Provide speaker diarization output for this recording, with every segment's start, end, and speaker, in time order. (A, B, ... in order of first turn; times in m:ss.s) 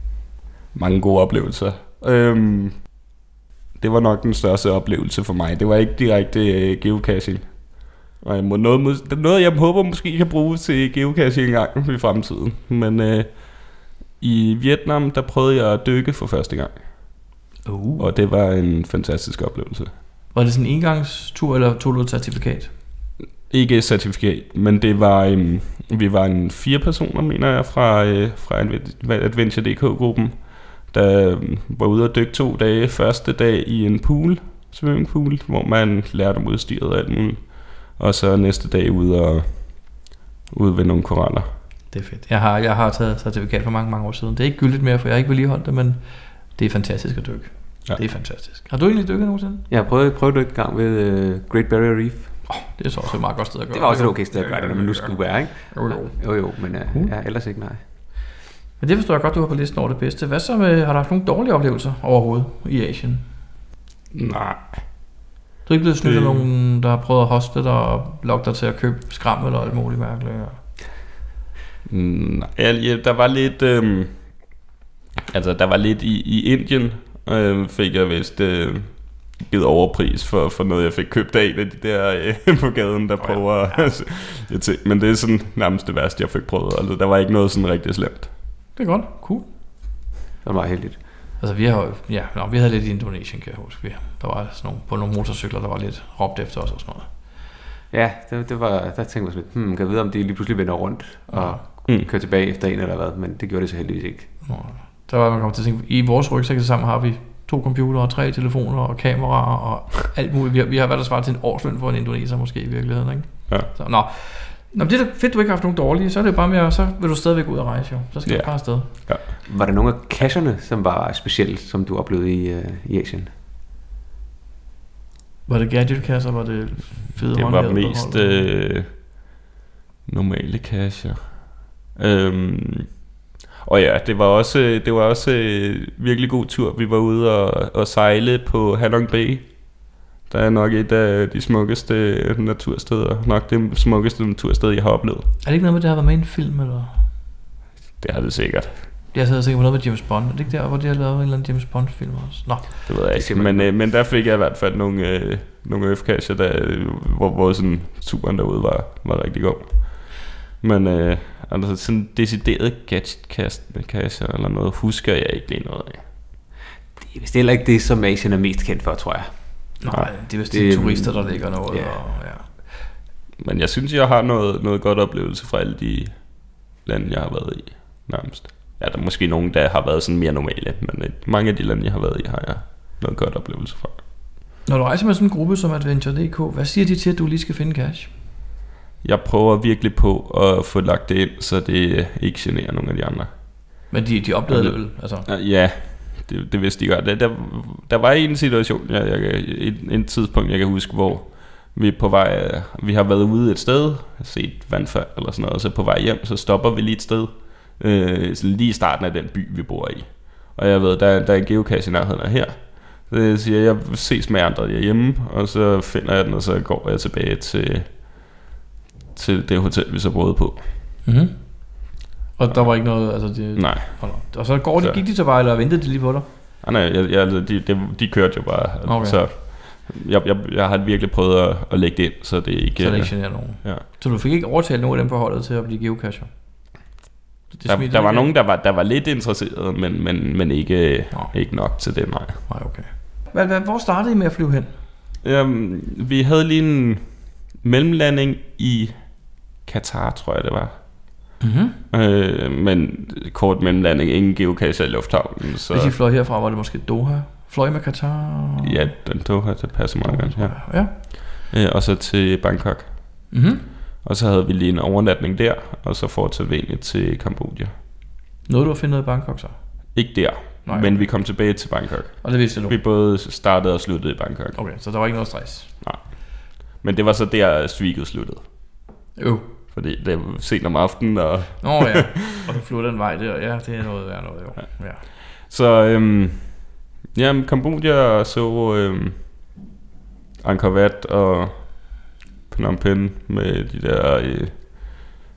0:00.7-0:02.9 A
0:03.8-0:16.8 A
0:17.6-0:18.1 B
0:18.0-0:19.9 A
0:20.3-0:22.7 B
0:23.5-0:41.5 A
0:41.9-0:49.7 B
0:49.7-0:52.6 C
0:52.5-0:57.1 B
0:53.7-0:57.8 C
0:58.8-1:03.3 B
1:04.1-1:04.8 A
1:05.6-1:10.6 B
1:06.0-1:06.5 A
1:11.8-1:14.2 A
1:15.3-1:28.3 A
1:23.2-1:23.9 B
1:28.7-1:29.5 B
1:30.4-1:31.0 C
1:31.4-1:37.1 B
1:37.9-1:44.3 C
1:41.3-1:41.6 B
1:44.4-1:58.9 B
1:58.2-1:59.3 A
1:59.4-2:03.3 C
2:05.5-2:08.5 B
2:07.3-2:08.9 A
2:10.0-2:12.9 A
2:13.6-2:19.5 A
2:20.3-2:25.3 A
2:25.4-2:27.0 B
2:28.0-2:28.9 A
2:29.1-2:32.8 B
2:32.8-2:46.0 A
2:33.1-2:33.7 C
2:47.0-2:49.8 C
2:49.8-2:52.7 B
2:50.5-2:52.0 C
2:53.4-3:04.0 A
3:04.6-3:08.1 B
3:09.0-3:13.3 A
3:13.9-3:15.3 B
3:14.5-3:38.3 A
3:39.1-3:40.7 A
3:41.0-3:46.2 B
3:42.5-3:45.0 A
3:46.6-3:53.8 A
3:48.8-3:49.2 B
3:52.8-3:56.3 B
3:57.5-3:58.3 B
3:57.7-4:02.4 A
4:02.5-4:04.7 B
4:05.2-4:07.1 A
4:07.6-4:11.3 A
4:11.4-4:11.8 B
4:11.9-4:15.9 A
4:15.7-4:18.9 B
4:18.6-4:23.3 A
4:20.0-4:20.9 B
4:23.3-4:23.6 B
4:24.0-4:27.7 A
4:28.4-4:29.6 B
4:29.9-4:34.6 A
4:30.6-4:31.4 B
4:32.2-4:32.8 B
4:34.5-4:35.7 B
4:35.8-4:38.4 A
4:39.2-4:39.5 B
4:39.7-4:42.2 A
4:41.6-4:45.0 B
4:45.4-4:49.3 A
4:50.4-4:55.0 A